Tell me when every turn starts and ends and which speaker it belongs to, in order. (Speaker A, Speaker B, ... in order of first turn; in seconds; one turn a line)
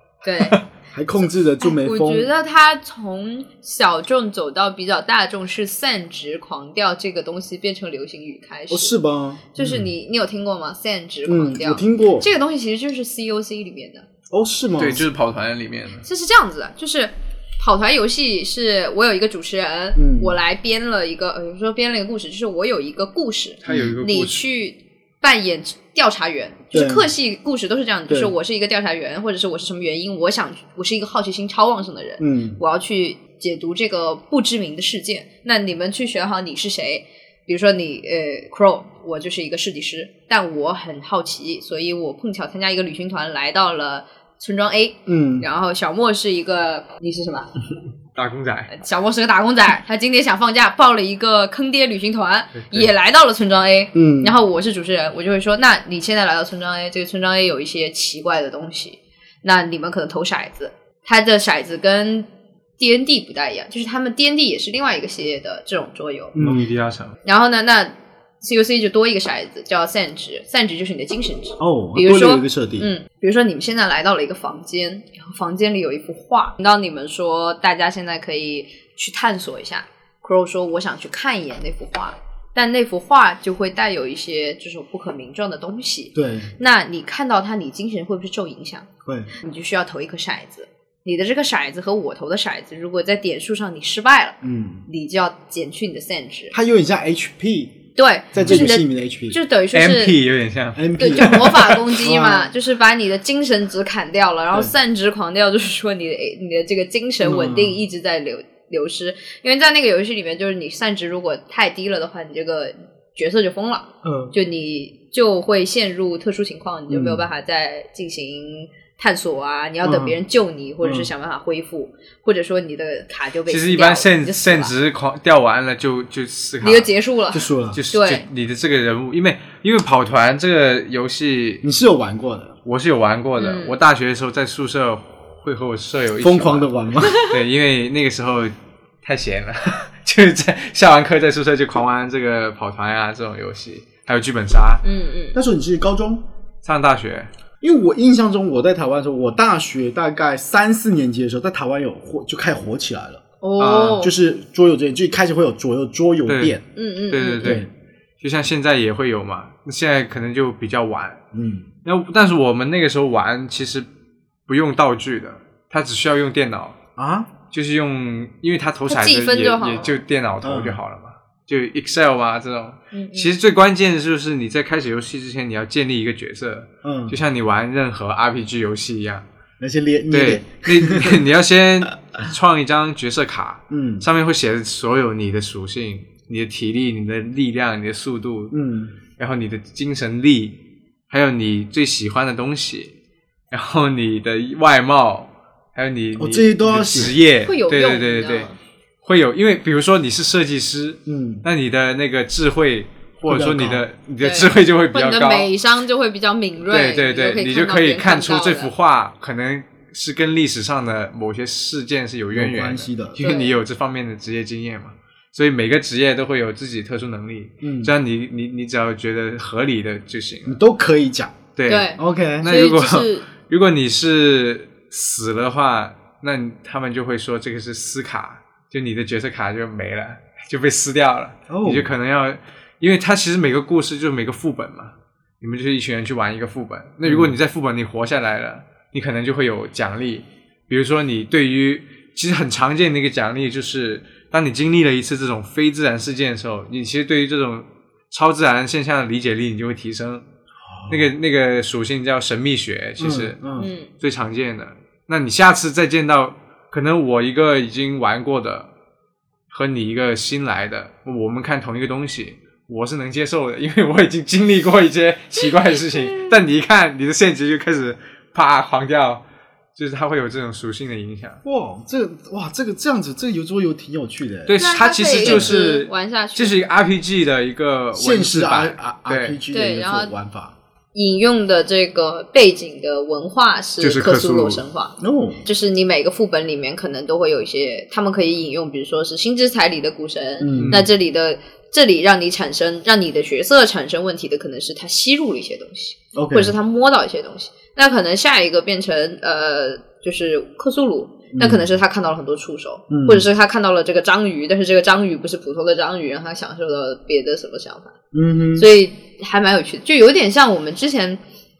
Speaker A: 0.2-0.6
Speaker B: 0.9-2.3
Speaker A: 1.6-8.9
Speaker B: 8.7-9.5
Speaker A: 9.5-14.1
Speaker B: 11.2-12.3
Speaker B: 14.3-15.1
Speaker C: 14.8-16.0
Speaker A: 16.0-47.5
Speaker B: 19.9-20.4
Speaker C: 23.6-24.4
Speaker B: 23.7-23.9
Speaker B: 26.7-27.1
Speaker B: 32.2-32.6
Speaker B: 45.1-45.5
Speaker C: 48.1-48.7
Speaker A: 48.7-62.3
Speaker C: 52.5-52.9
Speaker B: 53.9-54.4
Speaker A: 62.8-66.4
Speaker B: 66.3-66.7
Speaker C: 66.4-67.2
Speaker A: 67.2-96.5
Speaker B: 71.6-72.9
Speaker B: 86.1-86.5
Speaker B: 89.0-89.3
Speaker B: 94.4-94.8
Speaker B: 96.5-97.8
Speaker A: 98.0-100.2
Speaker B: 98.3-99.4
Speaker C: 98.4-98.6
Speaker C: 99.7-101.8
Speaker B: 100.7-102.5
Speaker A: 101.0-124.7
Speaker B: 107.2-107.8
Speaker B: 114.0-114.3
Speaker B: 116.9-117.2
Speaker B: 119.8-120.2
Speaker B: 120.8-121.1
Speaker C: 123.5-126.9
Speaker A: 126.6-128.3
Speaker B: 127.3-127.8
Speaker C: 127.7-131.6
Speaker B: 131.6-132.6
Speaker C: 132.6-144.8
Speaker A: 133.4-133.7
Speaker B: 136.2-137.2
Speaker A: 137.0-137.3
Speaker A: 144.8-145.4
Speaker B: 145.3-146.2
Speaker C: 146.6-147.3
Speaker B: 147.6-153.2
Speaker A: 153.4-154.1
Speaker C: 153.6-154.0
Speaker B: 153.9-156.6
Speaker C: 156.3-156.6
Speaker A: 156.7-157.6
Speaker C: 157.1-157.7
Speaker B: 157.4-157.7
Speaker C: 158.2-161.2
Speaker B: 161.3-161.7
Speaker C: 161.8-163.9
Speaker C: 164.5-166.8
Speaker B: 167.0-167.3
Speaker C: 167.5-179.2
Speaker A: 168.9-169.9
Speaker B: 170.4-170.8
Speaker A: 172.9-173.3
Speaker B: 176.8-177.2
Speaker B: 179.6-181.2
Speaker C: 180.1-188.5
Speaker B: 183.7-184.1
Speaker B: 188.5-188.9
Speaker C: 189.2-190.6
Speaker C: 191.1-192.9
Speaker C: 193.5-198.5
Speaker B: 196.2-197.2
Speaker A: 197.4-198.6
Speaker C: 199.0-205.5
Speaker B: 201.1-201.4
Speaker B: 203.2-203.8
Speaker A: 204.2-208.7
Speaker C: 206.7-220.6
Speaker B: 212.3-213.2
Speaker A: 213.2-213.5
Speaker B: 217.6-217.9
Speaker B: 220.5-221.4
Speaker C: 221.6-250.2
Speaker A: 221.7-223.3
Speaker B: 222.0-222.5
Speaker B: 231.5-231.9
Speaker B: 237.0-237.3
Speaker B: 250.7-251.1
Speaker C: 250.9-253.4
Speaker B: 253.0-253.7
Speaker A: 253.6-253.9
Speaker C: 254.0-258.7
Speaker C: 259.5-269.2
Speaker A: 265.4-266.4
Speaker C: 269.8-271.4
Speaker B: 271.4-274.6
Speaker C: 274.5-279.4
Speaker A: 274.5-276.6
Speaker B: 275.1-275.6
Speaker B: 277.9-280.6
Speaker A: 279.5-280.1
Speaker A: 280.9-307.9
Speaker C: 283.8-284.6
Speaker B: 285.0-285.4
Speaker B: 290.4-290.9
Speaker C: 290.5-290.9
Speaker B: 296.1-296.5
Speaker B: 301.3-301.6
Speaker B: 302.9-303.3
Speaker B: 308.1-308.7
Speaker A: 308.5-311.2